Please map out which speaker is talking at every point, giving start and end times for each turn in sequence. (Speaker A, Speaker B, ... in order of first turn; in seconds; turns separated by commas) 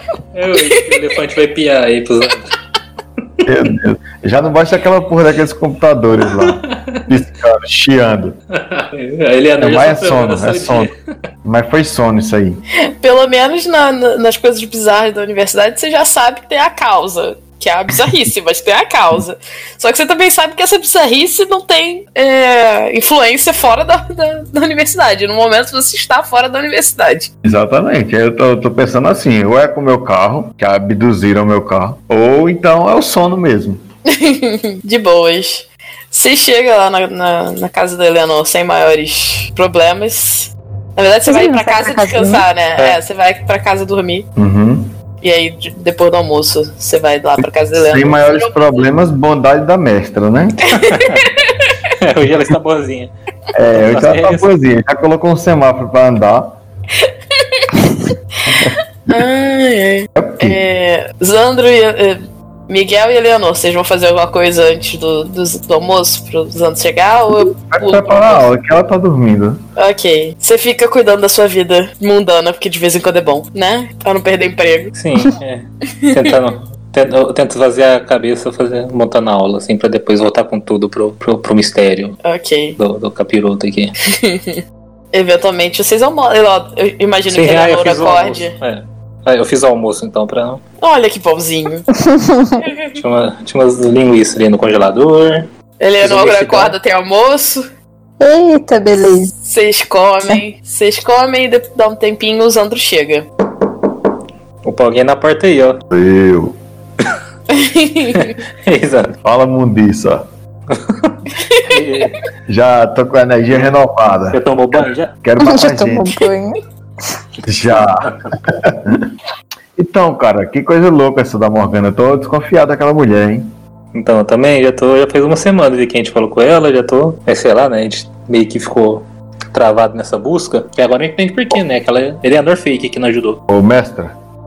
Speaker A: 0.3-2.5, Speaker B: 0.6-1.0, Speaker C: 3.5-8.4, Speaker A: 6.4-7.0, Speaker A: 8.5-10.9, Speaker C: 9.6-10.9, Speaker C: 11.4-12.6, Speaker B: 12.8-27.3, Speaker C: 27.4-33.8, Speaker B: 34.1-44.3, Speaker D: 41.3-42.5, Speaker C: 44.4-44.9, Speaker B: 45.2-48.9, Speaker C: 47.8-50.8, Speaker B: 50.7-51.8, Speaker A: 50.8-51.3, Speaker A: 52.0-53.1, Speaker C: 53.5-56.6, Speaker A: 53.7-54.5, Speaker B: 57.4-57.9, Speaker B: 58.5-68.5, Speaker C: 60.2-60.6, Speaker C: 67.7-69.6, Speaker B: 69.8-74.9, Speaker A: 75.0-82.2, Speaker B: 82.2-82.8, Speaker A: 82.8-84.0, Speaker B: 84.1-84.6, Speaker B: 85.1-88.5, Speaker A: 87.3-90.6, Speaker B: 90.8-91.9, Speaker D: 92.0-92.6, Speaker A: 92.9-95.5, Speaker B: 95.8-97.7, Speaker A: 96.0-96.8, Speaker D: 98.2-99.3, Speaker B: 99.4-103.3, Speaker A: 104.6-105.8, Speaker C: 105.9-106.6, Speaker B: 107.5-108.3, Speaker A: 108.2-109.2, Speaker C: 109.2-110.2, Speaker A: 110.7-112.2, Speaker B: 111.3-111.8, Speaker C: 112.5-116.2, Speaker A: 114.3-115.1, Speaker D: 115.4-116.6, Speaker C: 117.4-119.1, Speaker A: 117.7-118.3, Speaker C: 119.8-123.5, Speaker A: 123.9-133.4, Speaker C: 133.5-134.1